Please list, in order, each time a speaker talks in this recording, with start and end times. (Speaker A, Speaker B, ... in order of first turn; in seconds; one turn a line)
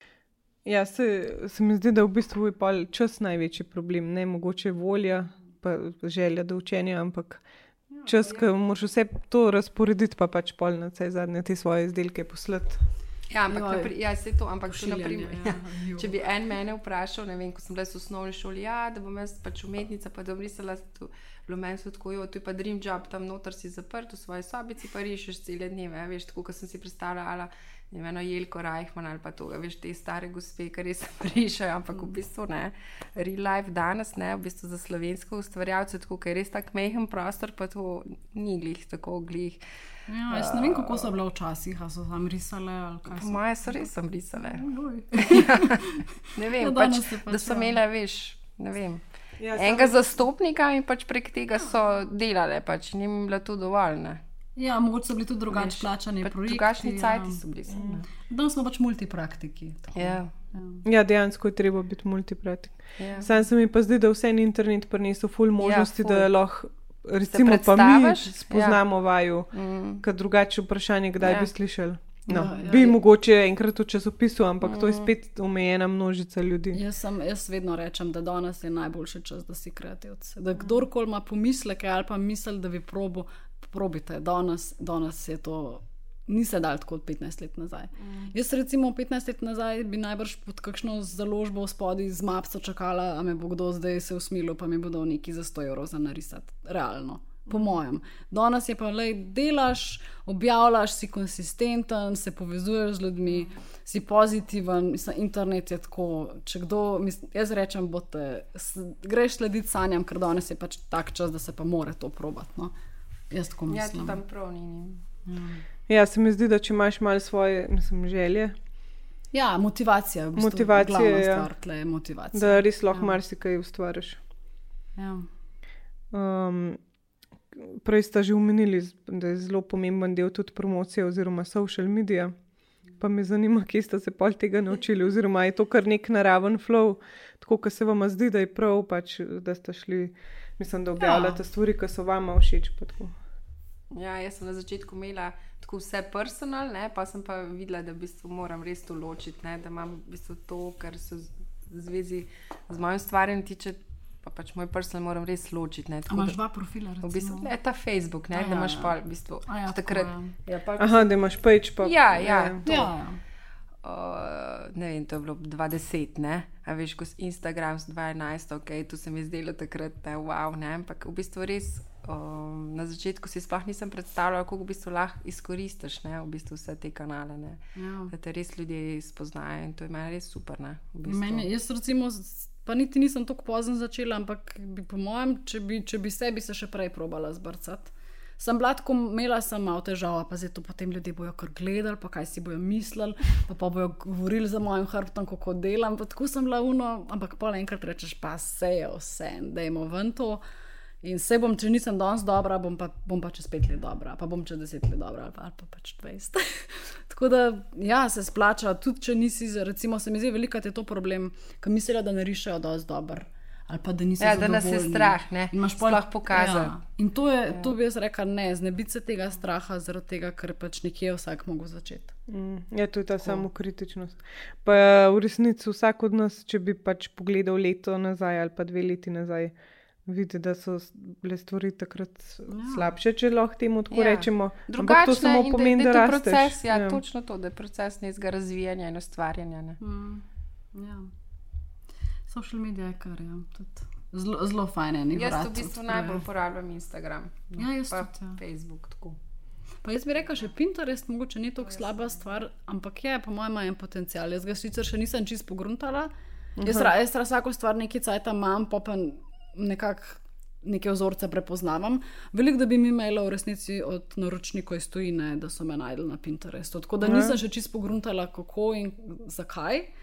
Speaker A: 0.6-7.4
Speaker A: 8.1-12.8
Speaker B: 13.3-39.6
Speaker C: 13.5-13.9
Speaker C: 14.7-16.1
Speaker C: 40.1-47.8
Speaker B: 40.3-40.9
Speaker B: 43.1-54.2
Speaker A: 49.4-50.1
Speaker C: 54.5-57.4
Speaker B: 55.5-58.1
Speaker A: 57.7-58.0
Speaker C: 57.9-60.8
Speaker B: 60.0-60.3
Speaker A: 60.8-76.8
Speaker B: 63.0-63.3
Speaker B: 65.6-66.3
Speaker B: 67.3-68.8
Speaker B: 69.5-70.0
Speaker B: 71.2-71.5
Speaker C: 72.3-73.0
Speaker B: 74.6-75.1
Speaker C: 76.7-112.7
Speaker C: 113.3-114.2
Speaker B: 113.7-115.0
Speaker C: 115.2-115.6
Speaker A: 115.9-118.5
Speaker C: 119.3-123.2
Speaker A: 120.3-121.5
Speaker A: 122.3-124.2
Speaker C: 125.0-125.3
Speaker A: 126.1-126.8
Speaker A: 127.5-132.3
Speaker A: 132.9-143.2
Speaker C: 141.0-141.4
Speaker B: 143.9-156.4
Speaker C: 156.1-157.5
Speaker B: 157.0-161.2
Speaker C: 158.3-158.9
Speaker C: 159.4-160.3
Speaker A: 160.8-162.7
Speaker B: 161.8-162.9
Speaker C: 162.6-163.2
Speaker B: 163.8-181.5
Speaker C: 177.8-178.1
Speaker C: 181.1-200.4
Speaker C: 201.0-222.1
Speaker B: 214.2-216.7
Speaker A: 222.3-237.0
Speaker C: 232.5-232.9
Speaker B: 233.9-239.8
Speaker C: 239.8-241.1
Speaker C: 242.3-246.3
Speaker B: 245.1-249.2
Speaker C: 247.6-248.4
Speaker C: 249.8-256.1
Speaker B: 251.9-252.1
Speaker A: 256.6-256.9
Speaker C: 256.6-269.9
Speaker A: 267.0-267.4